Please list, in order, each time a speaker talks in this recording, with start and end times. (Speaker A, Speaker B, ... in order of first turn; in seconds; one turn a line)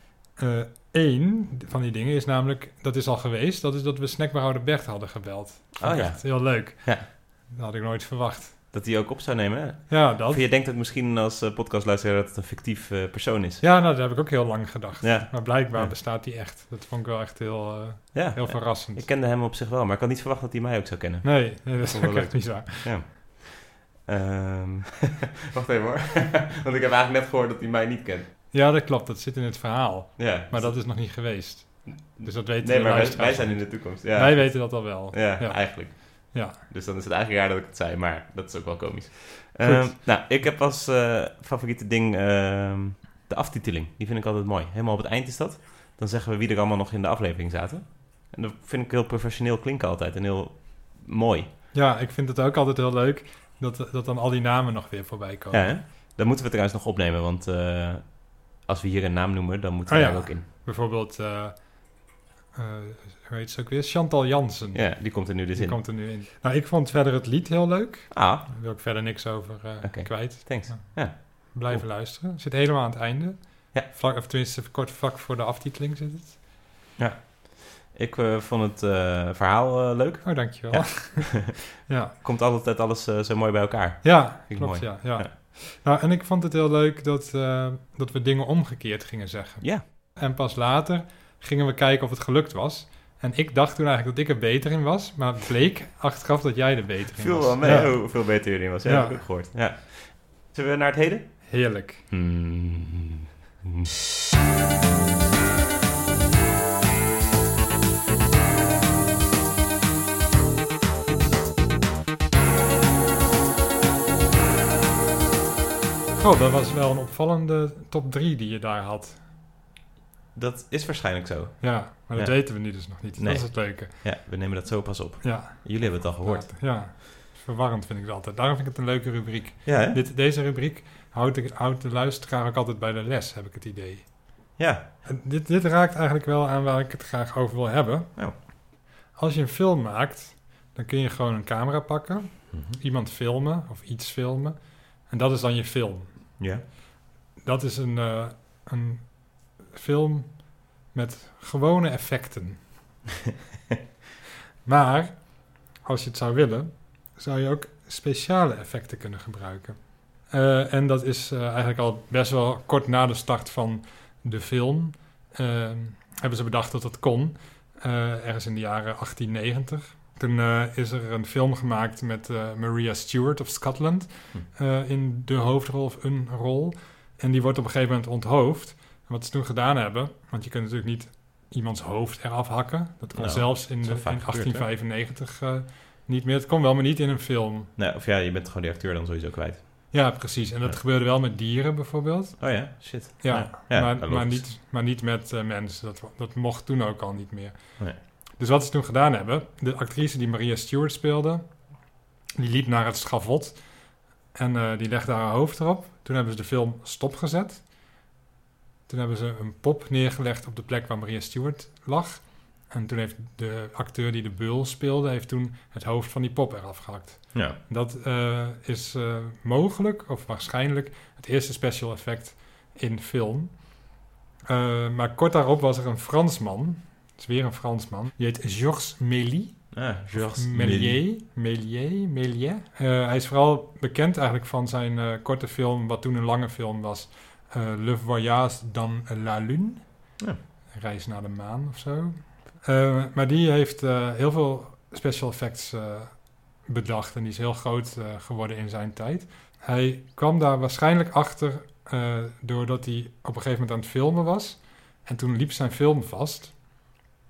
Speaker A: 0.4-8.6
Speaker B: 5.8-7.1
Speaker B: 8.7-13.6
Speaker A: 9.9-10.4
Speaker A: 13.6-19.1
Speaker B: 15.0-15.9
Speaker B: 18.1-28.3
Speaker A: 21.2-23.0
Speaker A: 28.5-36.6
Speaker B: 30.2-31.2
Speaker B: 31.8-51.5
Speaker A: 39.6-40.0
Speaker A: 51.7-55.8
Speaker B: 55.5-60.5
Speaker A: 59.9-76.4
Speaker B: 64.7-65.8
Speaker B: 68.1-68.5
Speaker B: 69.8-71.8
Speaker B: 77.0-85.3
Speaker A: 80.2-82.1
Speaker A: 84.0-99.2
Speaker B: 97.2-103.9
Speaker A: 101.5-102.1
Speaker A: 116.2-119.2
Speaker B: 120.3-126.6
Speaker A: 121.6-123.9
Speaker A: 125.2-146.5
Speaker B: 129.6-130.0
Speaker B: 134.6-134.9
Speaker B: 146.4-146.6
Speaker A: 147.4-152.7
Speaker A: 154.6-187.7
Speaker B: 183.1-184.7
Speaker B: 187.8-190.8
Speaker A: 189.9-201.7
Speaker B: 192.4-194.5
Speaker A: 202.4-207.9
Speaker A: 208.9-223.9
Speaker B: 217.3-217.6
Speaker A: 224.5-256.7
Speaker B: 229.7-231.0